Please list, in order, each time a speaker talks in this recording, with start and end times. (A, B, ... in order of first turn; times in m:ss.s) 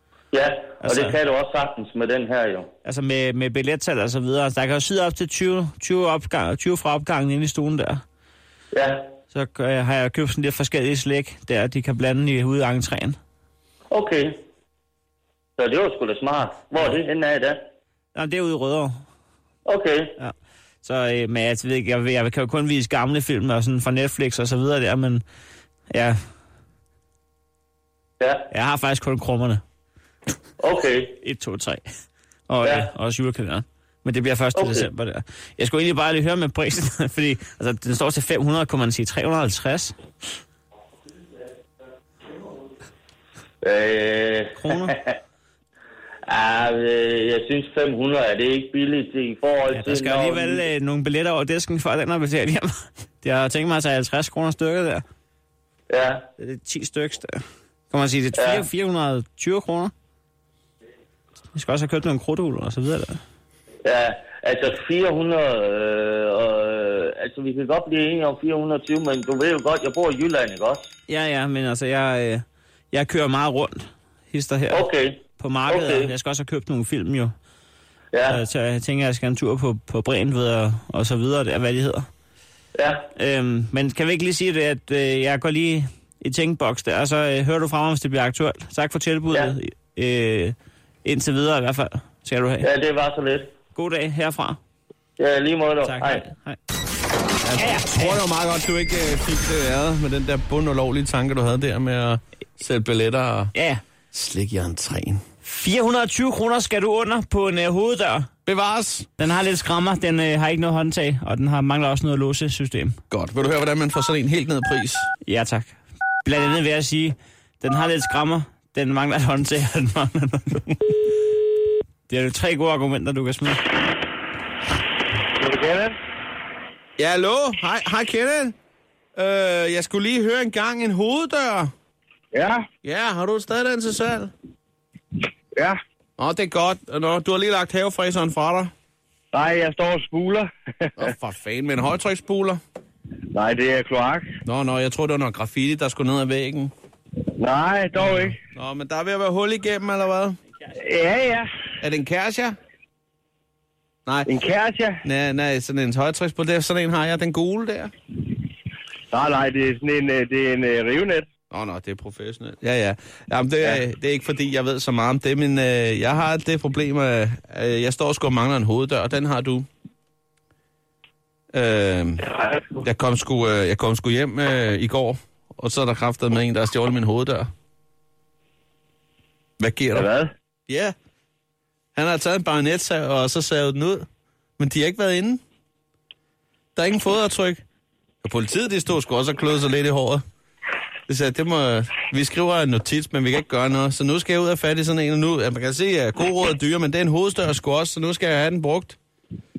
0:00.3-0:02.7 A
0:00.8-0:01.2 B
0:02.8-0:08.0 B
0:08.7-0:09.1 A
0:09.3-0:13.2 B
0:13.9-0:14.4 A
0:15.6-0:17.6 A
0:18.1-0:19.0 B
0:19.6-0:20.2 A
0:20.2-0:25.2 B
0:25.9-0:26.2 B
0:28.2-0:28.5 A
0:28.5-0:29.6 B
0:30.6-0:31.2 A
0:31.2-0:31.9 B
0:32.5-0:39.9 B
0:32.6-0:32.9 A
0:34.5-0:34.9 A
0:43.6-0:45.2 A
0:44.6-0:44.9 B
0:46.2-0:50.7 A
0:49.7-0:55.0 B
0:55.9-0:56.2 A
0:56.4-0:59.9 B
0:58.3-0:58.6 A
1:01.5-1:03.2 B
1:03.8-1:10.9 A
1:11.1-1:14.9 B
1:14.7-1:16.1 A
1:15.4-1:17.3 B
1:18.1-1:18.4 A
1:18.3-1:22.1 B
1:22.7-1:23.1 A
1:23.2-1:32.6 B
1:32.6-1:33.5 A
1:33.7-1:34.6 B
1:35.2-1:36.2 A
1:35.8-1:36.6 B
1:37.4-1:43.5 C
1:37.5-1:38.2 B
1:43.5-1:43.8 B
1:44.1-1:45.2 C
1:45.4-1:48.3 B
1:48.4-1:49.1 C
1:49.2-1:53.0 B
1:53.1-1:55.1 C
1:55.2-2:00.7 B
2:02.1-2:03.6 B
2:05.3-2:06.0 D
2:07.0-2:08.5 C
2:09.2-2:11.7 C
2:12.3-2:12.6 D
2:12.8-2:14.3 C
2:16.2-2:18.7 C
2:19.3-2:20.9 D
2:21.0-2:22.6 C
2:23.3-2:24.3 D
2:24.4-2:26.7 C
2:27.4-2:28.4 D
2:28.5-2:30.4 C
2:30.7-2:31.5 D
2:31.8-2:32.6 C
2:34.2-2:35.0 D
2:35.0-2:37.9 C
2:39.1-2:41.2 D
2:41.5-2:49.6 C
2:51.5-2:57.5 C
2:59.6-3:00.1 C
2:59.9-3:00.3 D
3:00.7-3:00.9 C
3:02.0-3:04.0 C
3:04.6-3:05.4 C
3:06.8-3:07.6 C
3:08.2-3:10.2 C
3:11.1-3:19.0 C